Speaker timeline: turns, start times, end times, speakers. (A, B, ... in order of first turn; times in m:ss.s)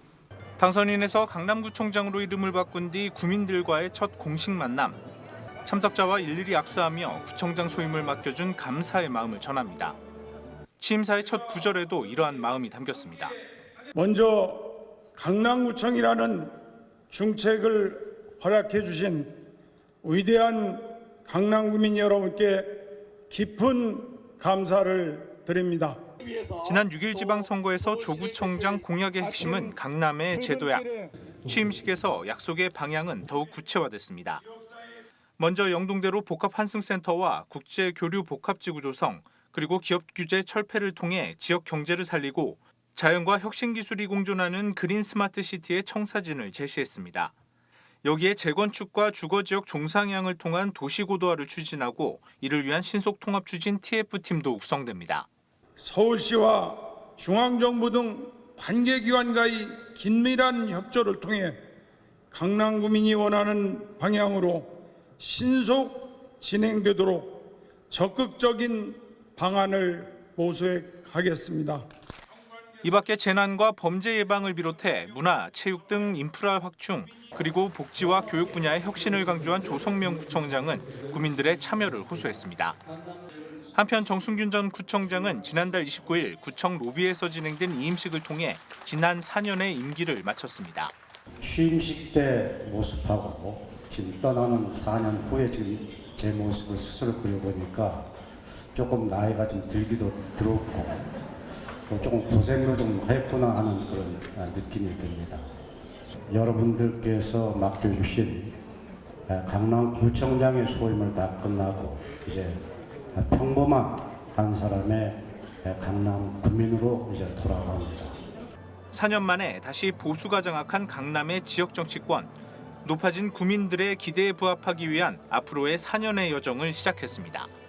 0:00.6-0:05.0 A
0:05.6-0:10.0 A
0:10.8-0:13.4 A
0:13.9-0:16.6 B
0:17.1-0:19.4 B
0:20.0-0:26.0 B
0:26.5-0:30.9 A
0:29.4-0:29.8 B
0:30.3-0:31.1 B
0:31.4-0:34.5 A
0:35.4-0:47.4 A
0:48.0-0:55.3 A
0:55.8-1:01.6 B
1:02.3-1:11.9 B
1:12.8-1:22.8 A
1:23.8-1:30.9 A
1:31.4-1:38.1 C
1:38.7-1:41.1 C
1:41.9-1:45.4 C
1:46.3-1:48.6 C
1:49.3-1:52.6 C
1:53.1-1:58.2 C
1:58.9-2:02.3 A
2:02.8-2:07.5 A